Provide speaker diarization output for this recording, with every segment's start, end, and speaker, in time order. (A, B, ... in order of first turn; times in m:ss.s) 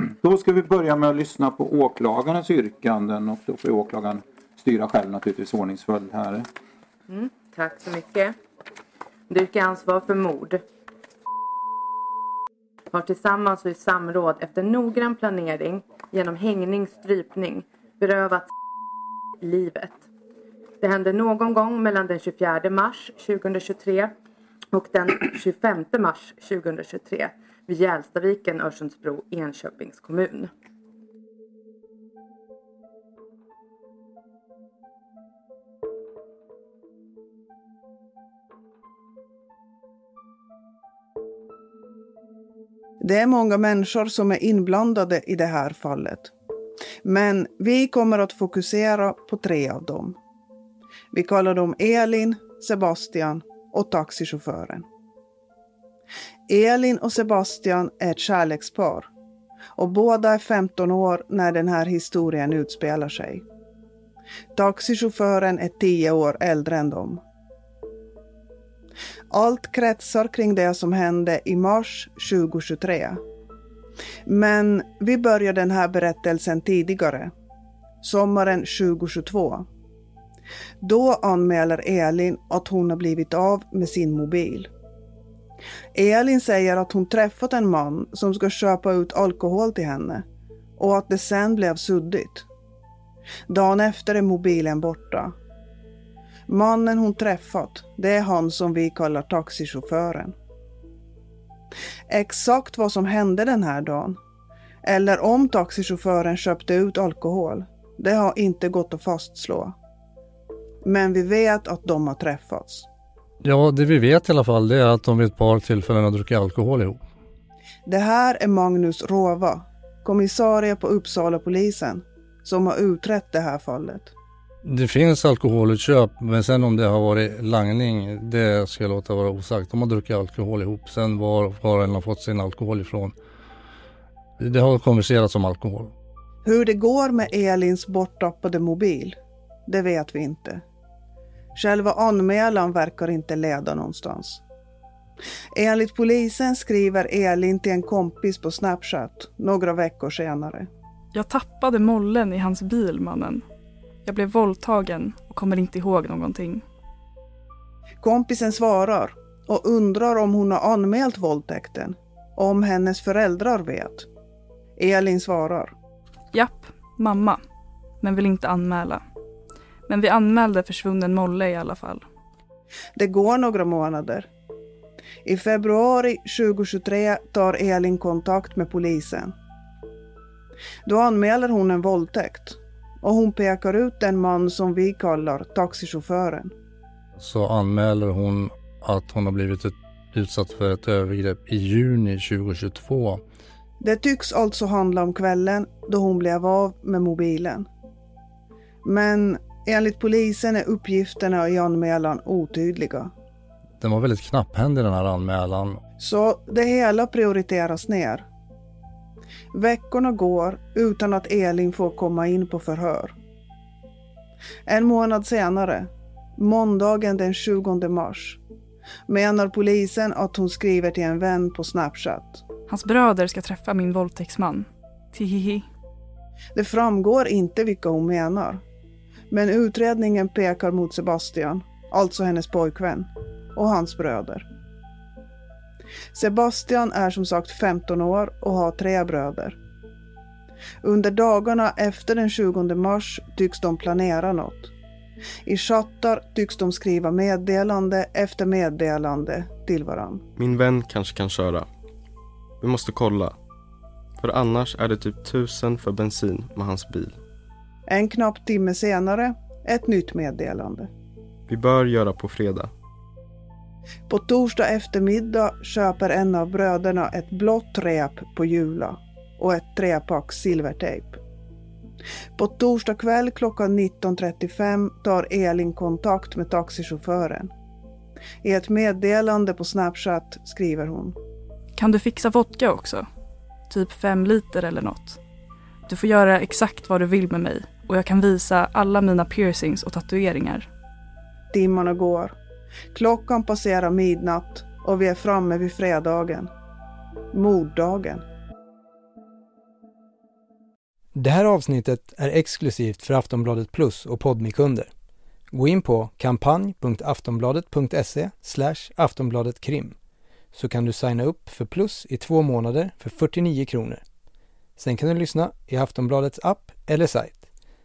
0:00.2-0:06.5 A
0:07.1-0:08.4 B
0:09.3-0:10.6 B
0:12.9-0:18.5 B
0:19.4-0:20.0 B
0:20.8-0:24.1 B
0:24.7-0:30.5 B
0:43.0-0:46.3 C
0:47.0-0:50.2 C
0:51.1-0:54.8 C
0:56.5-0:59.1 C
0:59.8-1:03.4 C
1:04.5-1:07.2 C
1:09.3-1:13.2 C
1:14.2-1:17.3 C
1:18.0-1:19.7 C
1:20.8-1:24.7 C
1:25.9-1:30.2 C
1:30.8-1:32.5 C
1:33.5-1:35.3 C
1:36.5-1:40.3 C
1:42.1-1:44.2 C
1:44.8-1:49.7 C
1:50.8-1:52.9 C
1:53.4-1:57.0 D
1:57.8-2:04.1 C
2:04.6-2:13.1 D
2:14.4-2:15.9 D
2:16.4-2:20.6 C
2:21.5-2:24.4 C
2:25.5-2:30.7 C
2:31.1-2:33.4 E
2:34.0-2:36.6 E
2:38.0-2:44.1 C
2:44.8-2:45.7 C
2:46.3-2:47.4 E
2:48.0-2:49.0 E
2:49.9-2:52.0 E
2:53.0-2:54.3 C
2:55.2-2:59.3 C
3:00.8-3:06.5 C
3:07.2-3:13.2 D
3:13.8-3:17.7 C
3:18.8-3:23.1 C
3:23.8-3:25.8 D
3:26.0-3:28.3 C
3:29.5-3:33.2 C
3:34.7-3:38.4 C
3:39.1-3:42.4 C
3:42.7-3:45.7 E
3:46.5-3:48.6 C
3:49.3-3:54.4 C
3:56.1-3:59.6 C
4:00.8-4:04.7 C
4:05.4-4:10.2 C
4:10.4-4:11.7 F
4:12.6-4:13.4 F
4:14.2-4:17.2 F
4:17.9-4:20.9 C
4:21.5-4:22.7 F
4:24.1-4:31.2 C
4:32.4-4:37.5 C
4:38.4-4:41.2 C
4:41.8-4:43.0 E
4:43.7-4:45.2 E
4:45.9-4:50.7 E
4:51.5-4:52.3 C
4:52.9-4:56.5 C
4:57.3-4:58.2 C
5:01.1-5:04.9 G
5:05.5-5:10.0 G
5:10.5-5:14.0 G
5:14.8-5:17.4 G